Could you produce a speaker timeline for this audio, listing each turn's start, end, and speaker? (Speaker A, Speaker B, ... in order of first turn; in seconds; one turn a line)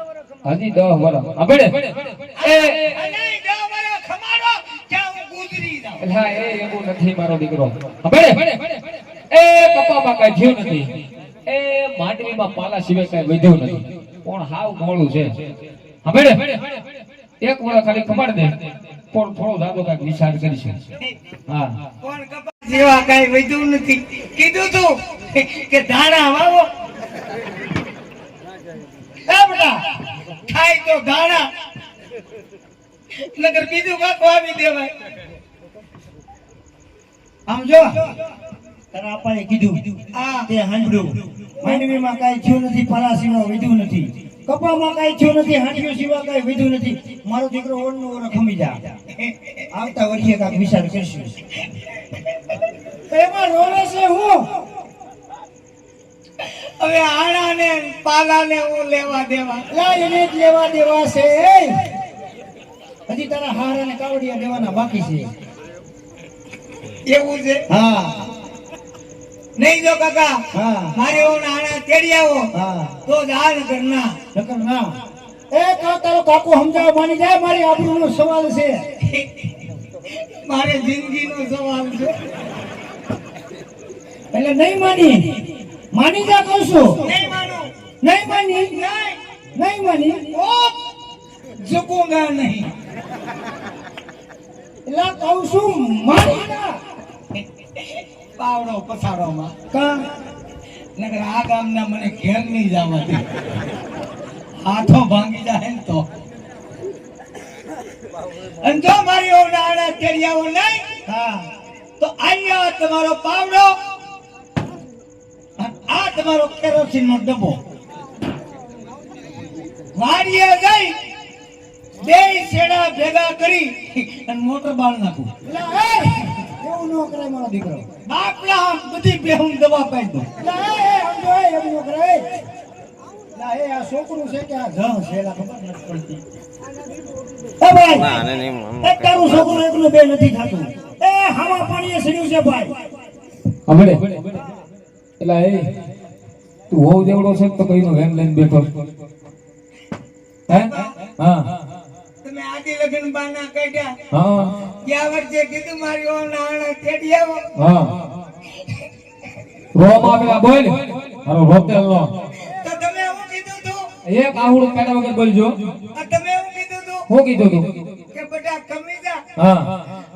Speaker A: 0.4-2.9
Speaker B: 2.4-6.0
Speaker A: 6.0-8.7
Speaker A: 9.3-10.9
Speaker A: 11.5-15.4
Speaker A: 16.0-16.6
Speaker A: 17.4-18.6
Speaker A: 19.1-20.8
Speaker A: 21.5-21.8
Speaker B: 22.0-26.7
Speaker C: 29.3-29.9
Speaker B: 30.5-31.5
Speaker B: 33.1-34.9
Speaker C: 37.5-38.1
Speaker C: 38.9-39.9
Speaker B: 40.1-40.5
Speaker C: 40.5-48.8
Speaker B: 49.1-49.7
Speaker C: 49.7-51.4
Speaker B: 51.6-52.6
Speaker C: 53.1-54.5
Speaker B: 56.4-59.7
Speaker C: 59.7-61.9
Speaker C: 63.1-65.3
Speaker B: 67.1-67.7
Speaker C: 67.7-68.3
Speaker B: 69.6-72.5
Speaker C: 70.5-71.0
Speaker C: 72.5-73.0
Speaker B: 73.0-74.2
Speaker C: 74.3-75.0
Speaker C: 75.5-78.8
Speaker B: 79.0-82.2
Speaker C: 84.3-87.1
Speaker B: 87.0-87.7
Speaker C: 88.0-88.8
Speaker B: 88.7-89.2
Speaker C: 89.6-90.2
Speaker B: 90.3-90.8
Speaker B: 91.6-92.7
Speaker C: 94.9-96.8
Speaker B: 97.3-99.5
Speaker C: 99.7-100.0
Speaker B: 101.0-103.3
Speaker B: 104.6-106.1
Speaker B: 108.4-110.9
Speaker C: 111.1-111.5
Speaker B: 112.0-113.8
Speaker B: 115.6-117.6
Speaker B: 120.0-121.0
Speaker B: 122.0-125.3
Speaker C: 125.5-127.9
Speaker B: 128.1-130.3
Speaker C: 130.4-132.3
Speaker C: 133.3-136.2
Speaker C: 137.6-142.8
Speaker A: 143.7-144.4
Speaker A: 145.2-145.7
Speaker A: 146.7-148.7
Speaker B: 150.5-150.9
Speaker A: 150.5-151.5
Speaker B: 152.2-153.9
Speaker A: 154.1-154.6
Speaker B: 154.7-157.5
Speaker A: 157.6-158.0
Speaker B: 158.5-159.3
Speaker A: 159.8-162.2
Speaker B: 162.4-163.8
Speaker A: 164.1-165.6
Speaker B: 165.9-167.1
Speaker A: 167.1-167.7
Speaker B: 168.1-169.2
Speaker A: 169.4-169.7